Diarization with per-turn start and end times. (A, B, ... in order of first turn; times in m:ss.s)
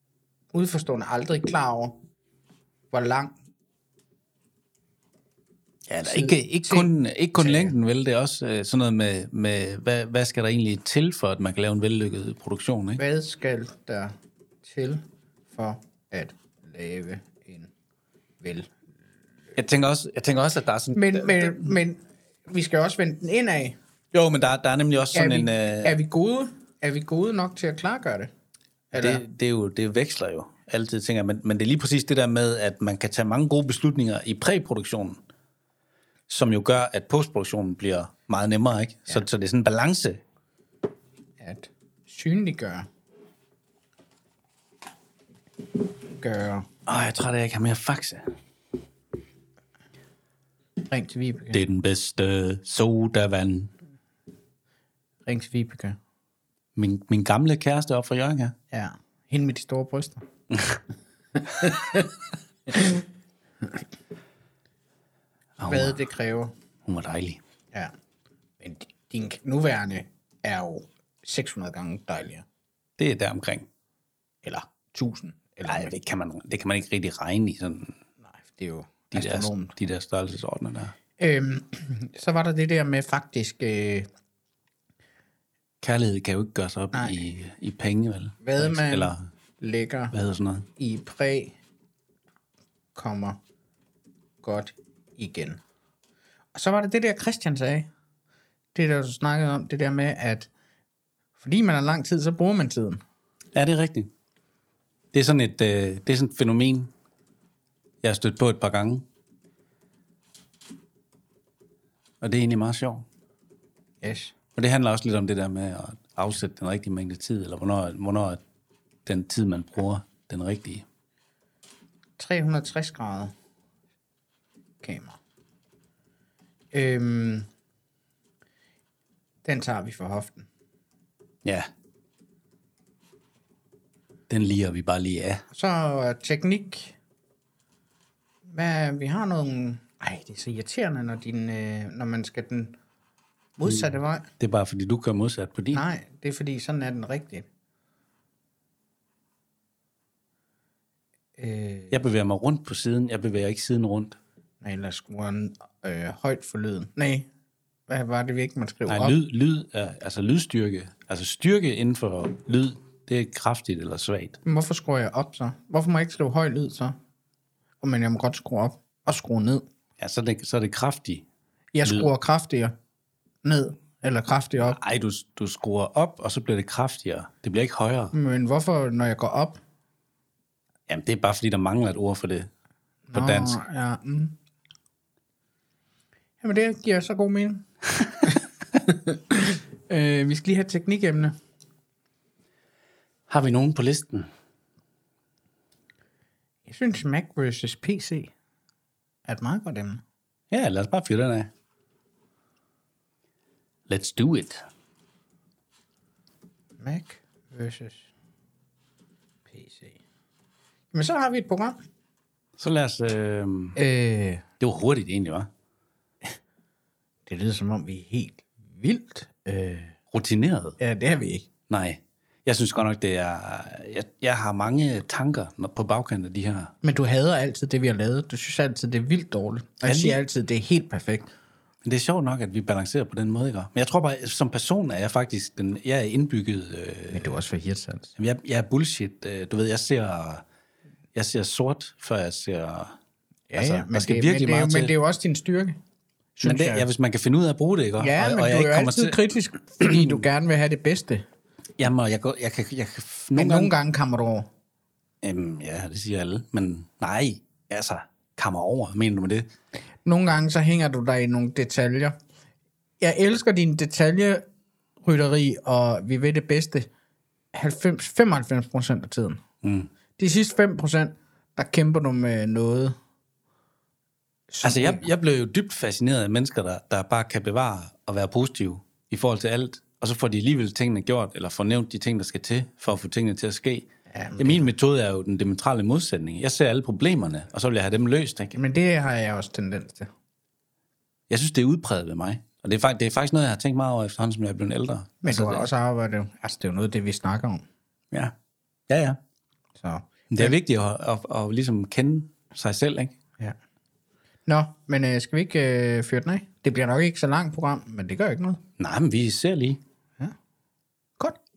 0:00.5-0:01.9 A
0:02.9-0:03.3 A
0:05.9-0:13.0 B
0:06.0-0:07.8 A
0:13.0-0:17.7 A
0:18.4-0:18.7 A
0:19.6-0:21.7 B
0:20.9-0:23.8 A
0:24.1-0:26.0 B
0:25.1-0:28.3 A
0:28.9-0:29.2 A
0:29.0-0:35.2 B
0:36.3-0:40.2 B
0:41.4-0:42.9 A
0:46.1-0:46.6 A
0:46.9-0:48.2 B
0:50.8-0:51.6 A
0:51.5-0:53.7 B
0:55.2-0:56.0 A
0:56.8-0:58.5 B
0:58.7-1:00.2 A
1:00.5-1:00.8 B
1:01.4-1:02.1 A
1:02.7-1:03.0 A
1:05.6-1:06.0 B
1:05.7-1:06.5 A
1:06.9-1:07.4 B
1:08.6-1:12.4 A
1:13.0-1:13.7 B
1:14.4-1:15.9 A
1:15.7-1:17.9 B
1:18.2-1:19.8 A
1:19.1-1:20.9 B
1:21.2-1:24.1 A
1:25.8-1:29.3 B
1:26.9-1:27.2 A
1:28.4-1:30.1 A
1:30.1-1:30.7 B
1:30.8-1:31.6 A
1:32.9-1:33.4 A
1:34.4-1:35.6 A
1:36.5-1:37.9 A
1:38.7-1:40.5 A
1:41.4-1:43.0 A
1:43.6-1:44.1 B
1:45.1-1:46.9 B
1:48.0-1:49.0 B
1:52.2-1:53.0 B
1:54.0-1:54.3 A
1:54.6-1:58.4 B
1:59.0-2:00.8 B
2:02.2-2:03.3 A
2:04.8-2:05.2 A
2:06.7-2:07.5 A
2:09.4-2:10.5 A
2:14.3-2:15.4 B
2:15.5-2:17.0 A
2:18.5-2:22.8 A
2:23.6-2:24.3 A
2:24.4-2:25.8 B
2:25.7-2:27.5 A
2:31.4-2:32.0 A
2:31.9-2:34.2 B
2:34.6-2:37.3 A
2:37.9-2:39.2 A
2:38.9-2:44.4 B
2:44.4-2:47.0 A
2:47.8-2:49.6 A
2:50.0-2:51.2 B
2:51.7-2:52.7 A
2:51.8-2:52.1 B
2:53.4-2:54.8 A
2:54.6-2:58.1 B
2:58.1-2:59.6 A
3:00.9-3:02.5 B
3:03.1-3:04.3 A
3:03.1-3:03.6 B
3:06.4-3:07.6 A
3:08.2-3:11.3 A
3:13.3-3:14.3 B
3:16.7-3:18.3 A
3:19.3-3:20.0 A
3:20.5-3:21.5 B
3:23.9-3:24.7 B
3:26.8-3:28.1 A
3:29.5-3:30.0 A
3:30.9-3:31.8 A
3:32.6-3:33.8 B
3:33.8-3:34.4 A
3:34.6-3:35.5 B
3:37.3-3:40.0 A
3:40.1-3:40.8 B
3:40.8-3:41.5 A
3:41.7-3:46.7 B
3:46.8-3:51.3 A
3:49.8-3:50.2 B
3:51.8-3:57.3 B
3:57.1-3:58.1 A
3:58.2-4:00.4 B
4:01.2-4:02.9 B
4:03.5-4:05.8 A
4:03.6-4:04.9 B
4:06.4-4:06.9 A
4:06.4-4:09.2 B
4:08.0-4:11.2 A
4:09.8-4:10.2 B
4:11.8-4:13.7 B
4:13.3-4:14.5 A
4:15.2-4:19.4 B
4:20.0-4:22.2 A
4:23.0-4:24.4 A
4:25.0-4:26.9 A
4:27.5-4:29.4 A
4:29.6-4:29.9 B
4:30.2-4:32.9 A
4:34.5-4:35.1 A
4:34.6-4:43.9 B
4:44.1-4:44.7 A
4:44.4-4:48.6 B
4:48.5-4:50.1 A
4:51.3-4:55.7 B
4:55.2-4:57.6 A
4:58.9-4:59.2 B
4:59.8-5:00.6 A
5:00.3-5:03.1 B
5:04.5-5:08.6 A
5:08.8-5:09.8 B